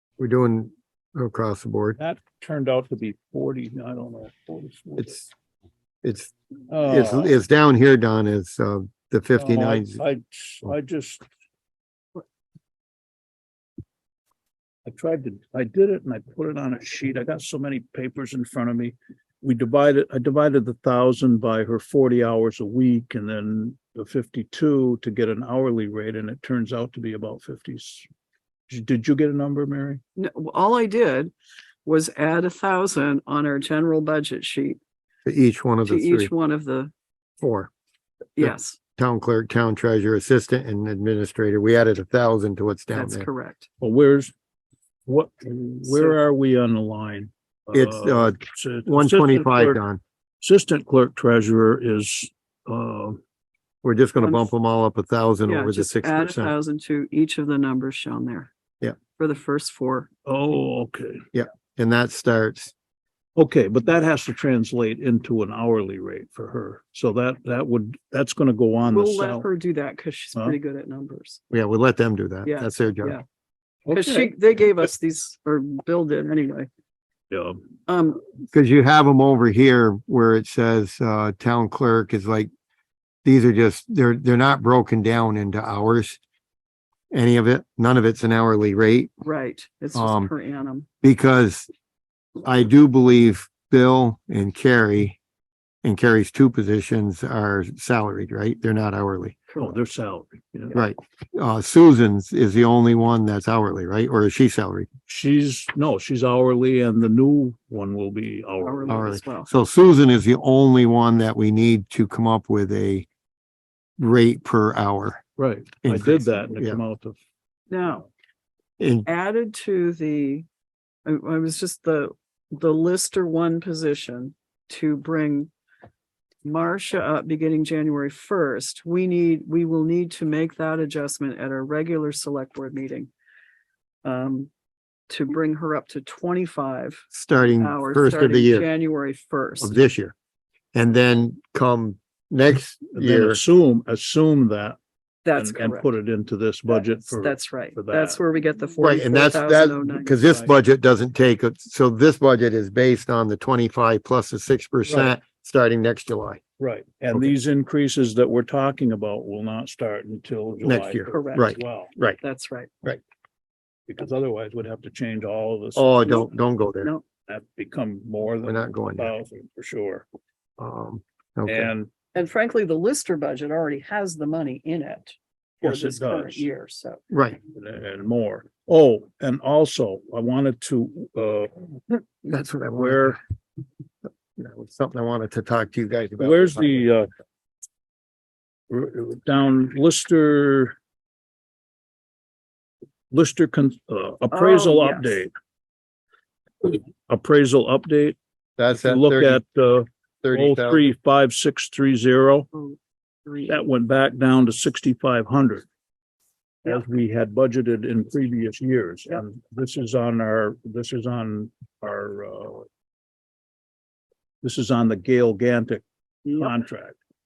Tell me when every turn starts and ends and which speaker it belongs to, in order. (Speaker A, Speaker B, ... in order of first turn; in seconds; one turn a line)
Speaker A: 0.2-2.0
Speaker B: 2.0-5.2
Speaker A: 5.0-5.3
Speaker A: 6.0-10.0
Speaker B: 6.7-7.4
Speaker B: 9.4-11.2
Speaker B: 14.8-28.1
Speaker B: 28.7-30.0
Speaker C: 30.1-31.3
Speaker C: 31.8-34.8
Speaker A: 35.2-36.3
Speaker C: 35.8-36.9
Speaker A: 37.4-37.7
Speaker C: 38.4-38.8
Speaker A: 38.4-43.3
Speaker C: 42.9-43.7
Speaker B: 43.8-44.3
Speaker B: 45.0-49.8
Speaker C: 45.9-46.1
Speaker A: 47.7-50.0
Speaker B: 50.4-53.2
Speaker A: 53.8-56.5
Speaker C: 54.2-54.5
Speaker C: 55.5-58.5
Speaker C: 59.1-60.1
Speaker B: 60.2-61.2
Speaker A: 61.3-62.7
Speaker B: 63.4-69.5
Speaker C: 68.9-71.4
Speaker A: 71.5-73.2
Speaker C: 72.4-73.2
Speaker B: 73.8-74.3
Speaker C: 73.9-76.7
Speaker B: 77.3-77.6
Speaker C: 77.9-78.2
Speaker A: 78.5-82.5
Speaker A: 83.2-86.2
Speaker A: 87.1-89.1
Speaker C: 89.2-90.9
Speaker A: 89.9-90.3
Speaker A: 91.0-91.7
Speaker A: 92.4-95.2
Speaker A: 95.8-99.4
Speaker C: 99.5-99.8
Speaker B: 99.6-100.8
Speaker A: 100.7-104.9
Speaker B: 105.1-109.0
Speaker C: 108.6-109.5
Speaker A: 108.9-113.1
Speaker A: 114.0-115.2
Speaker B: 115.4-117.2
Speaker A: 115.8-116.8
Speaker C: 117.7-118.1
Speaker A: 118.8-119.1
Speaker C: 119.0-120.5
Speaker C: 121.0-125.5
Speaker C: 126.4-133.1
Speaker C: 134.0-134.5
Speaker C: 135.1-139.8
Speaker A: 137.1-138.7
Speaker A: 139.6-140.1
Speaker A: 140.7-143.4
Speaker B: 142.9-144.8
Speaker C: 145.2-145.9
Speaker B: 145.3-148.2
Speaker C: 146.7-150.3
Speaker A: 148.8-156.4
Speaker B: 150.2-150.5
Speaker B: 154.9-155.1
Speaker B: 156.6-161.9
Speaker A: 160.6-162.2
Speaker C: 161.1-161.6
Speaker C: 162.2-162.7
Speaker B: 163.9-166.0
Speaker A: 165.8-166.9
Speaker C: 166.0-166.3
Speaker B: 167.3-170.1
Speaker A: 168.4-169.1
Speaker A: 170.6-171.7
Speaker B: 171.4-171.9
Speaker C: 172.1-177.0
Speaker B: 175.6-176.5
Speaker A: 177.1-177.4
Speaker B: 177.5-182.0
Speaker A: 182.2-183.2
Speaker B: 182.7-183.2
Speaker A: 184.3-186.9
Speaker B: 186.2-187.1
Speaker B: 188.7-190.8
Speaker B: 193.1-195.3
Speaker C: 194.3-195.2
Speaker B: 196.6-198.2
Speaker A: 198.6-199.4
Speaker B: 198.7-202.5
Speaker A: 200.2-200.9
Speaker C: 202.5-203.6
Speaker B: 203.4-205.7
Speaker B: 206.6-212.7
Speaker B: 214.4-217.0